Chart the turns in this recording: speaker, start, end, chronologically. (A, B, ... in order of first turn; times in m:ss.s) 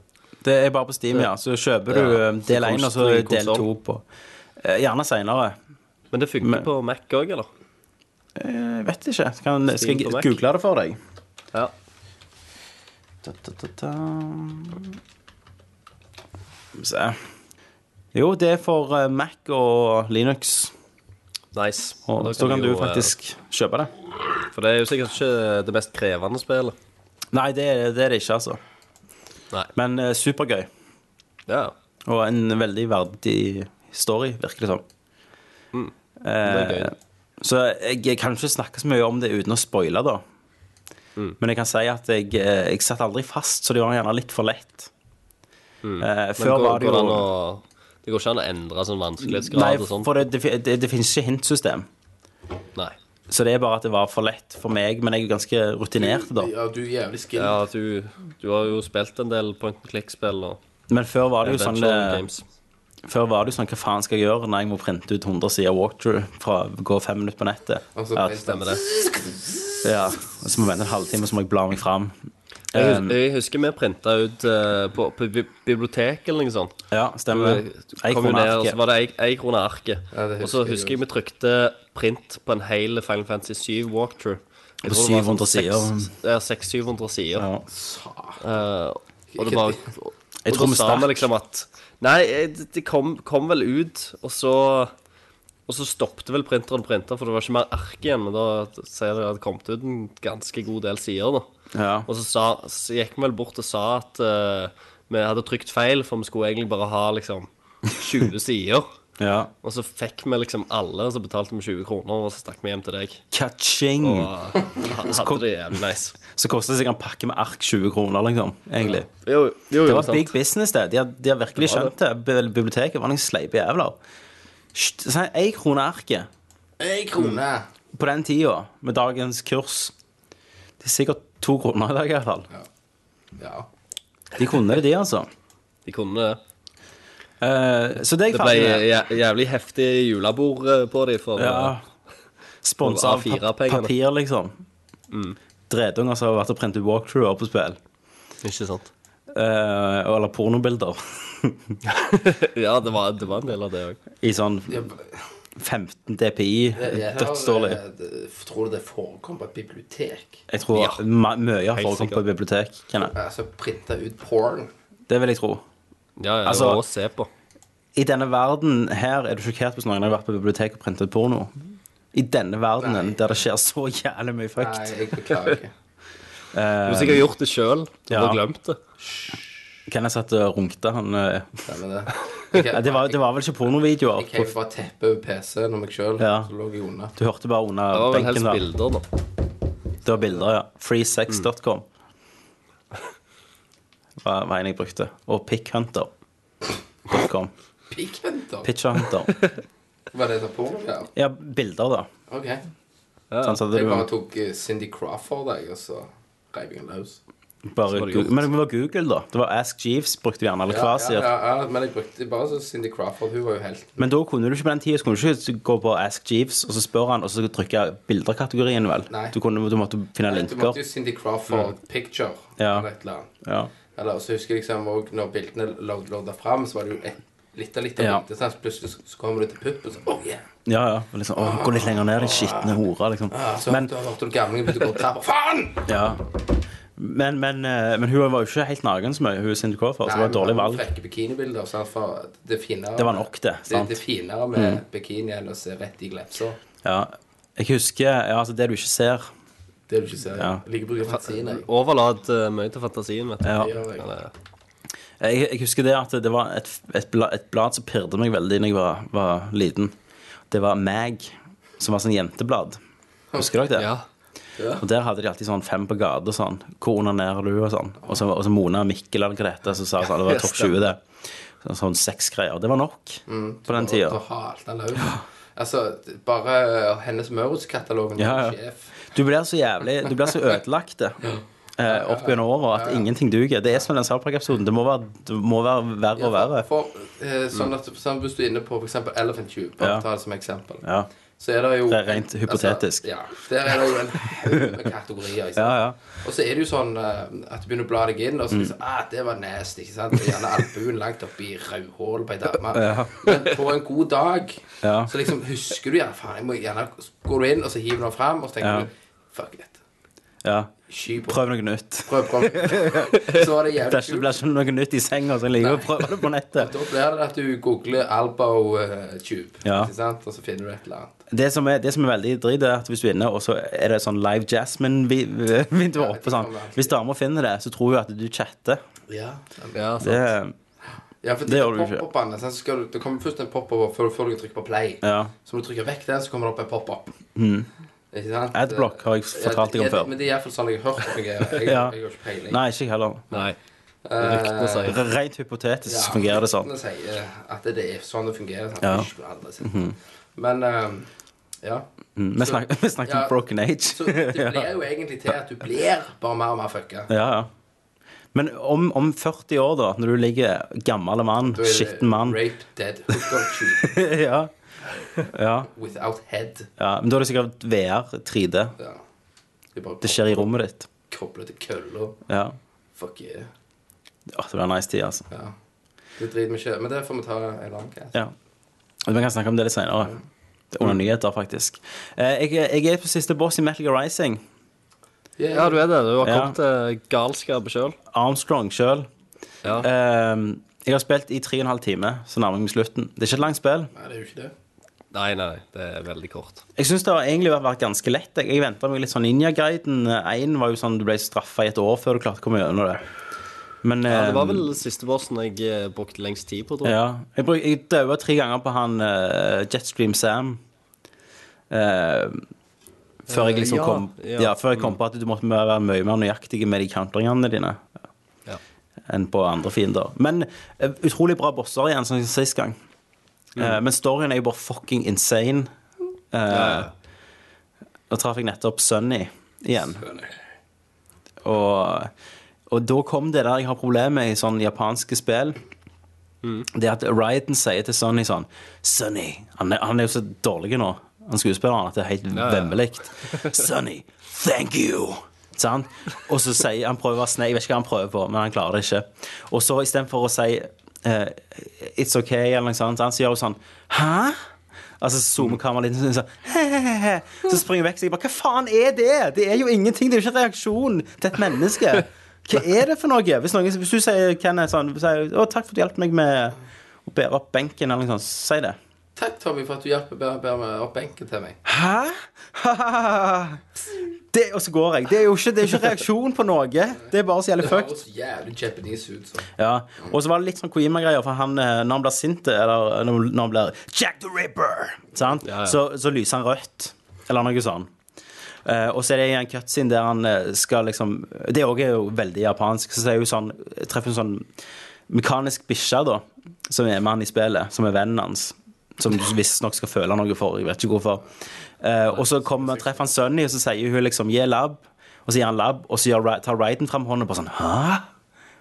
0:00.4-0:04.0 A
0:01.9-0:03.7 B
0:04.6-0:05.6 A
0:06.1-0:07.5 B
0:06.4-0:06.7 A
0:08.4-0:11.0 A
0:09.7-0:10.4 B
0:13.2-0:14.9 A
0:16.8-0:17.2 A
0:18.1-0:20.7 A
0:21.5-0:23.1 B
0:22.1-0:23.9 A
0:24.5-0:26.8 B
0:27.3-0:28.6 A
0:29.8-0:30.7 A
0:31.5-0:31.7 B
0:32.1-0:34.8 A
0:35.7-0:36.9 B
0:36.2-0:40.2 A
0:41.4-0:44.9 A
0:45.8-0:50.1 B
0:46.0-0:47.2 A
0:49.2-0:51.9 A
0:53.3-0:56.5 A
0:56.0-0:57.6 C
0:57.4-1:00.6 B
1:00.9-1:02.2 A
1:01.4-1:02.4 B
1:03.1-1:08.3 A
1:08.0-1:09.7 C
1:08.4-1:08.8 B
1:09.8-1:12.1 A
1:12.7-1:13.2 A
1:12.7-1:16.8 B
1:16.9-1:18.8 A
1:17.3-1:27.5 B
1:20.1-1:21.0 C
1:24.8-1:26.1 A
1:27.4-1:27.6 A
1:27.7-1:28.4 C
1:28.4-1:34.9 B
1:29.3-1:29.8 C
1:30.4-1:31.3 A
1:35.7-1:41.5 B
1:41.7-1:42.1 A
1:42.1-1:48.9 B
1:49.2-1:49.5 A
1:49.6-1:53.2 B
1:53.3-1:54.3 A
1:54.0-1:56.2 B
1:55.1-1:55.4 A
1:56.3-1:59.1 A
1:58.8-2:00.3 B
1:59.8-2:04.0 A
2:01.6-2:01.9 B
2:04.7-2:06.3 A
2:06.8-2:07.7 C
2:07.9-2:09.9 A
2:10.8-2:12.5 A
2:13.4-2:13.7 C
2:14.4-2:15.3 A
2:15.9-2:16.4 B
2:17.4-2:18.9 A
2:18.3-2:21.8 B
2:21.4-2:21.8 A
2:22.6-2:24.6 A
2:22.8-2:23.9 B
2:25.1-2:25.4 B
2:25.7-2:27.8 A
2:28.4-2:28.9 B
2:29.3-2:31.7 A
2:31.9-2:34.0 B
2:34.2-2:34.9 A
2:34.7-2:35.2 C
2:35.6-2:37.8 A
2:36.8-2:40.4 C
2:40.5-2:43.1 A
2:40.7-2:41.0 B
2:41.7-2:42.2 B
2:43.1-2:44.7 C
2:45.1-2:45.6 A
2:46.2-2:47.3 B
2:46.4-2:46.8 A
2:48.0-2:51.6 A
2:52.1-2:55.0 A
2:52.8-2:53.4 C
2:54.6-2:55.7 C
2:56.5-2:57.3 A
2:56.8-2:58.8 B
2:58.1-2:58.4 A
2:59.9-3:01.6 A
3:01.7-3:03.2 C
3:02.7-3:04.5 A
3:04.2-3:07.1 C
3:06.2-3:06.5 A
3:07.2-3:08.6 A
3:07.9-3:09.0 B
3:10.0-3:11.8 A
3:14.2-3:16.1 A
3:17.1-3:17.5 A
3:17.9-3:18.7 C
3:18.6-3:19.4 A
3:20.1-3:21.1 C
3:21.2-3:22.1 A
3:22.3-3:22.6 C
3:23.3-3:23.6 B
3:23.4-3:24.1 A
3:23.7-3:27.2 C
3:27.7-3:31.3 A
3:27.9-3:28.5 B
3:30.7-3:34.1 C
3:34.0-3:40.8 A
3:39.1-3:39.4 C
3:40.2-3:43.3 C
3:42.6-3:42.9 A
3:43.4-3:43.7 A
3:43.9-3:50.4 C
3:48.0-3:48.2 A
3:50.7-3:53.9 A
3:51.4-3:55.9 C
3:55.9-3:56.2 A
3:57.0-4:00.8 A
4:00.0-4:06.6 C
4:03.0-4:04.0 A
4:04.5-4:04.8 A
4:06.8-4:09.3 A
4:09.9-4:11.7 C
4:10.4-4:10.6 A
4:11.1-4:14.3 B
4:13.4-4:13.7 A
4:13.6-4:14.1 C
4:15.2-4:19.9 A
4:20.5-4:22.8 A
4:23.4-4:23.9 A
4:23.8-4:24.0 B
4:24.6-4:24.8 C
4:24.8-4:31.0 A
4:30.0-4:30.8 B
4:31.6-4:34.2 A
4:33.3-4:38.9 C
4:35.0-4:35.2 A
4:38.2-4:46.7 A
4:41.2-4:43.1 C
4:46.2-4:50.8 C
4:49.8-4:50.0 A
4:50.8-4:51.1 A
4:51.4-5:09.8 C
4:51.9-4:53.1 A
4:54.4-4:54.7 A
4:55.6-4:56.0 A
5:02.7-5:03.3 A
5:04.8-5:05.1 A
5:08.6-5:08.9 A
5:10.4-5:16.7 A
5:10.9-5:11.4 C
5:12.1-5:14.3 C
5:15.6-5:21.2 C
5:19.6-5:19.9 A
5:21.3-5:28.8 A
5:25.9-5:27.0 C
5:29.1-5:29.8 C
5:29.8-5:30.3 B
5:30.0-5:30.5 A
5:31.2-5:37.1 C
5:31.5-5:32.0 A
5:35.0-5:35.3 A
5:37.4-5:37.7 A
5:38.1-5:42.6 C
5:38.5-5:40.1 A
5:41.6-5:42.0 A
5:42.5-5:43.3 A
5:43.3-5:43.6 B
5:44.0-5:45.0 C
5:44.2-5:45.0 B
5:44.9-5:46.7 A
5:45.9-5:49.8 C
5:48.8-5:49.1 A
5:49.6-5:50.0 A
5:50.4-5:51.1 C
5:51.6-5:53.4 C
5:52.2-5:54.7 A
5:53.9-5:57.1 C
5:57.1-5:57.5 A
5:58.3-6:02.4 A
6:01.5-6:04.0 C
6:03.1-6:04.5 A
6:05.2-6:05.7 A
6:05.7-6:06.7 C
6:06.8-6:08.7 A
6:09.8-6:10.5 C
6:10.0-6:10.9 A
6:11.1-6:12.2 C
6:12.3-6:12.6 A
6:13.0-6:13.5 C
6:14.3-6:15.2 A
6:15.3-6:15.6 C
6:16.2-6:18.2 C
6:19.0-6:20.2 A
6:20.7-6:24.4 A
6:25.4-6:25.8 C
6:25.5-6:28.0 B
6:26.2-6:26.6 A
6:28.1-6:29.1 A
6:29.8-6:33.9 A
6:33.9-6:34.5 C
6:35.1-6:36.6 B
6:36.8-6:43.0 A
6:43.8-6:44.7 A
6:44.1-6:47.0 B
6:46.8-6:50.6 A
6:51.7-6:52.5 A
6:53.3-6:57.8 A
6:53.3-6:55.0 B
6:59.1-7:02.8 A
7:03.6-7:05.7 A
7:06.3-7:06.9 A
7:06.5-7:06.9 B
7:08.1-7:10.0 A
7:10.0-7:10.3 C
7:11.4-7:12.1 A
7:12.7-7:15.6 A
7:16.7-7:34.4 A
7:22.3-7:22.8 B
7:35.0-7:48.8 A
7:49.2-7:51.6 C
7:51.7-7:53.6 A
7:54.3-7:57.9 A
7:57.6-7:59.5 C
7:59.6-8:07.9 A
8:05.4-8:05.8 B
8:08.6-8:14.5 A
8:15.1-8:21.2 A
8:21.8-8:28.1 A